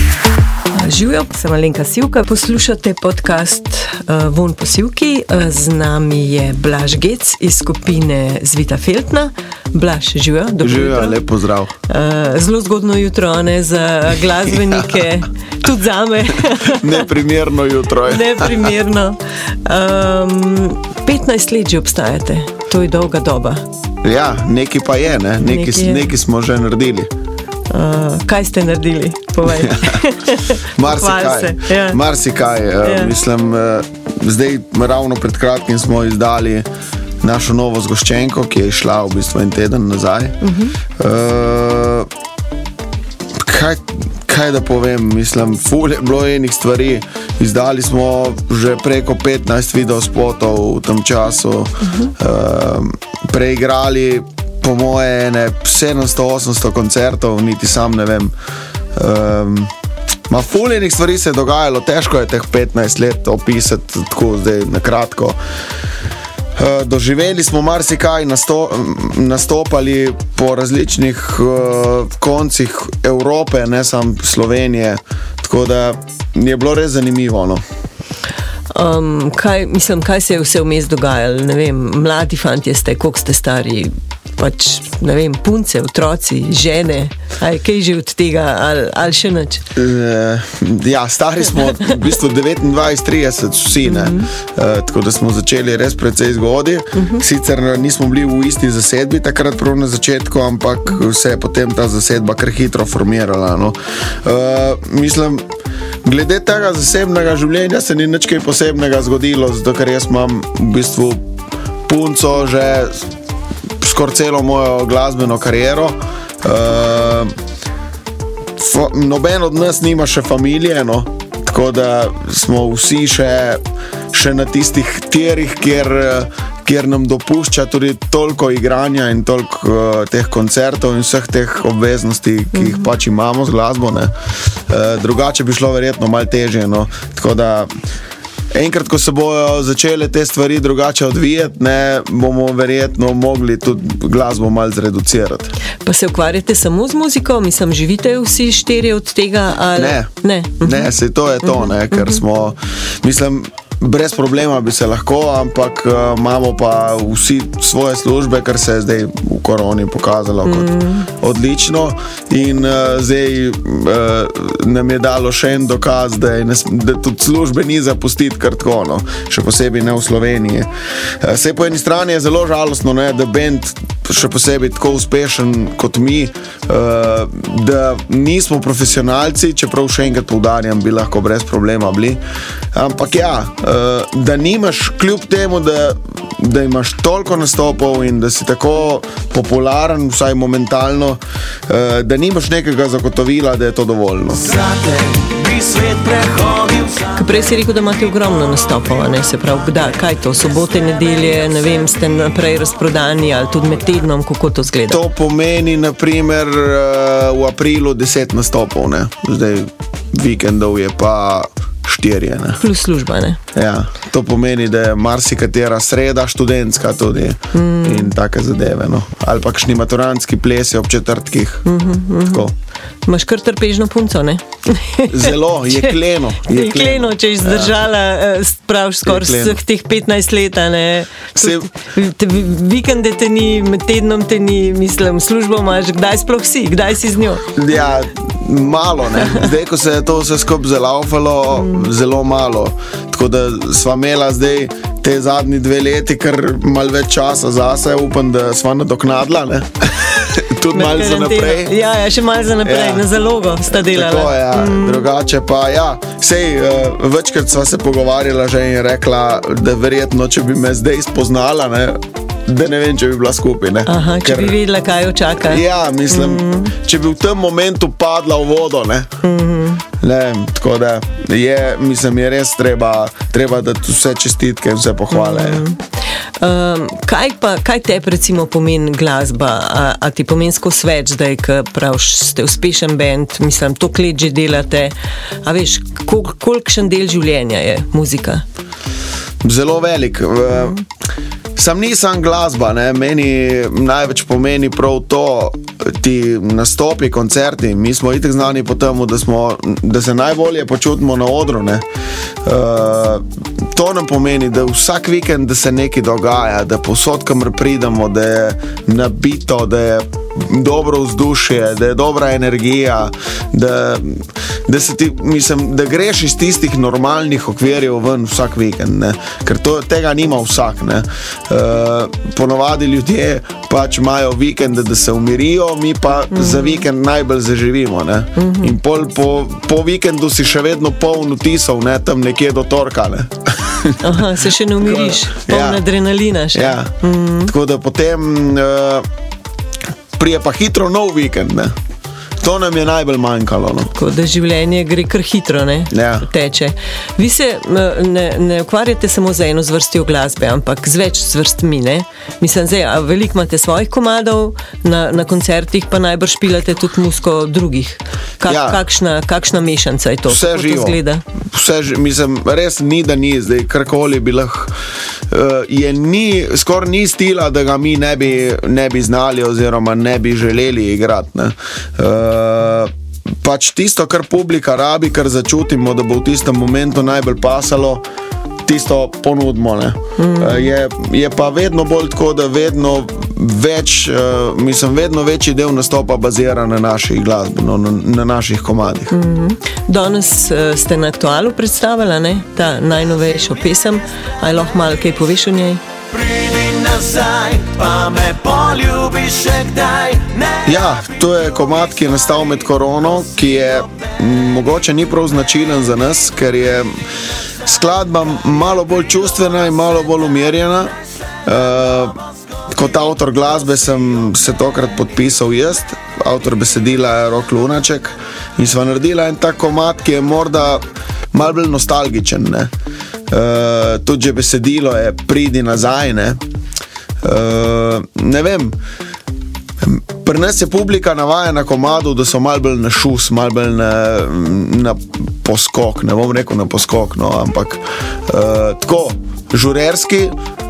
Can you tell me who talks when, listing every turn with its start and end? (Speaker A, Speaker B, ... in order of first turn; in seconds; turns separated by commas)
Speaker A: 0.7-11.2, Speaker B: 10.6-11.7, Speaker A: 11.9-17.1, Speaker B: 16.6-18.7, Speaker A: 18.0-23.6, Speaker B: 24.0-27.1, Speaker A: 25.4-26.1, Speaker A: 27.7-32.0, Speaker B: 29.4-30.0, Speaker B: 30.7-36.6, Speaker A: 32.8-33.1, Speaker B: 37.2-40.4, Speaker A: 40.4-40.8, Speaker B: 41.0-42.1, Speaker B: 43.4-58.3, Speaker A: 51.8-52.1, Speaker B: 58.9-59.7, Speaker B: 60.3-65.4, Speaker B: 66.5-77.6, Speaker A: 78.7-89.7, Speaker B: 89.7-105.4, Speaker A: 93.8-94.3, Speaker A: 96.9-97.2, Speaker B: 106.0-111.2, Speaker B: 111.8-113.1, Speaker B: 113.8-117.3, Speaker B: 118.6-123.6, Speaker B: 124.1-134.1, Speaker A: 132.5-132.9, Speaker B: 134.7-137.7, Speaker B: 138.5-145.5, Speaker A: 145.8-152.2, Speaker B: 149.8-170.7, Speaker A: 160.4-161.1, Speaker B: 171.2-182.2, Speaker B: 182.7-194.7, Speaker C: 194.6-197.1, Speaker A: 197.1-205.0, Speaker B: 204.9-212.6, Speaker A: 212.6-213.4, Speaker B: 213.5-221.7, Speaker A: 217.5-218.1, Speaker A: 221.6-222.5, Speaker B: 222.2-222.5, Speaker A: 223.1-237.4, Speaker B: 225.1-227.8, Speaker B: 229.0-229.6, Speaker B: 231.3-231.7, Speaker B: 237.5-251.7, Speaker A: 239.2-239.5, Speaker A: 241.5-241.9, Speaker A: 250.7-255.1, Speaker B: 252.6-253.1, Speaker B: 253.7-264.6, Speaker A: 263.8-266.8, Speaker B: 265.4-269.1, Speaker A: 269.2-269.8, Speaker B: 270.0-275.6, Speaker A: 275.1-275.8, Speaker A: 276.4-288.4, Speaker B: 289.4-290.8, Speaker A: 290.5-290.8, Speaker B: 291.6-301.8, Speaker B: 302.4-335.8, Speaker A: 326.3-326.8, Speaker A: 328.4-328.8, Speaker A: 334.0-337.5, Speaker B: 336.5-339.1, Speaker B: 340.1-341.7, Speaker B: 342.4-343.9, Speaker A: 343.9-361.2, Speaker B: 345.9-346.3, Speaker B: 358.5-358.8, Speaker B: 360.2-361.0, Speaker B: 361.5-364.7, Speaker B: 365.3-372.9, Speaker B: 373.4-378.0, Speaker B: 378.6-389.1, Speaker A: 380.2-380.7, Speaker A: 389.1-395.8, Speaker C: 396.1-400.6, Speaker B: 400.6-407.0, Speaker B: 407.6-410.9, Speaker B: 411.4-412.2, Speaker B: 412.7-420.8, Speaker B: 421.3-422.7, Speaker B: 423.3-426.4, Speaker B: 427.2-428.8, Speaker B: 429.8-440.3